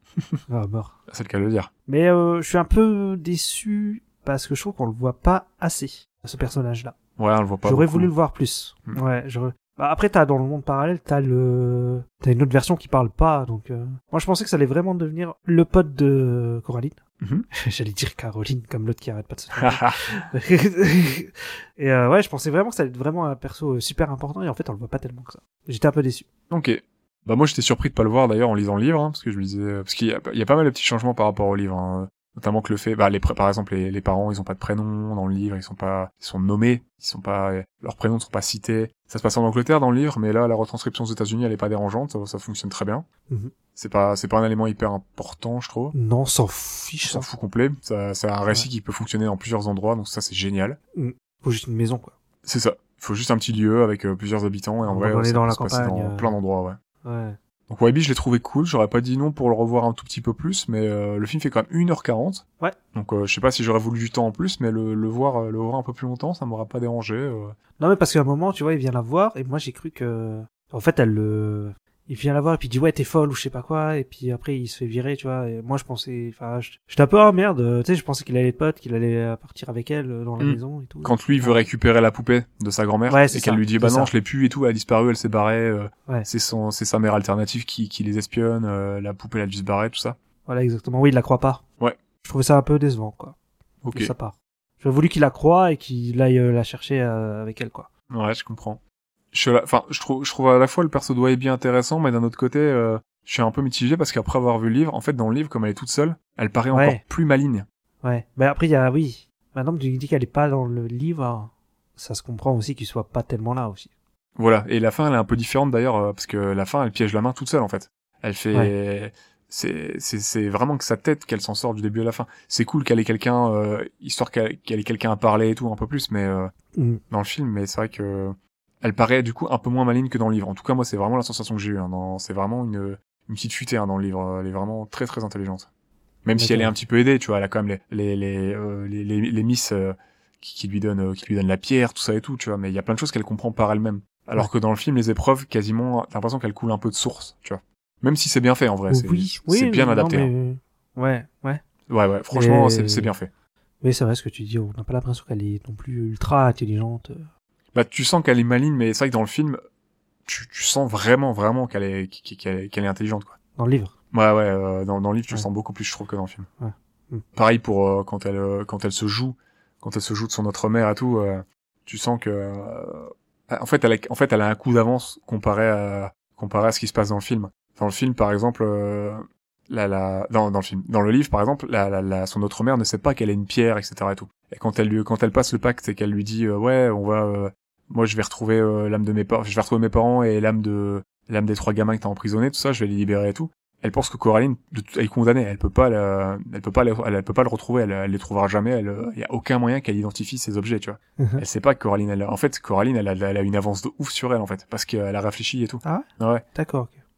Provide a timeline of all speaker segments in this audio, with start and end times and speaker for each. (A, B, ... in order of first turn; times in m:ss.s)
0:00.5-0:01.0 A
0:01.1-0:01.7 B
0:01.9-0:06.9 A
0:07.2-0:08.1 B
0:07.6-0:17.0 A
0:17.2-0:17.5 B
0:17.5-0:26.2 A
0:19.5-0:20.1 B
0:26.5-0:43.0 B
0:43.7-0:45.9 B
0:45.9-0:47.3 A
0:47.0-0:50.8 B
0:50.9-0:52.1 A
0:52.4-0:56.8 B
0:54.9-0:56.3 A
0:57.0-0:57.4 A
0:57.7-1:07.6 B
1:07.8-1:21.6 A
1:20.4-1:30.2 B
1:23.1-1:24.1 A
1:30.5-1:31.6 A
1:32.2-1:33.3 A
1:33.8-1:34.1 B
1:33.9-1:37.9 A
1:38.1-1:38.8 B
1:39.3-1:47.6 B
1:46.7-1:47.0 A
1:48.0-1:53.9 A
1:54.4-2:06.5 B
2:06.8-2:07.0 A
2:07.1-2:15.7 B
2:16.2-2:30.3 B
2:16.3-2:16.7 A
2:28.9-2:31.6 A
2:31.9-2:33.3 B
2:32.3-2:33.1 A
2:33.8-2:37.3 A
2:37.7-2:39.6 B
2:40.2-2:43.4 B
2:43.6-2:43.9 A
2:44.1-2:46.5 B
2:46.6-2:47.2 A
2:47.3-3:26.4 B
3:25.8-3:27.0 A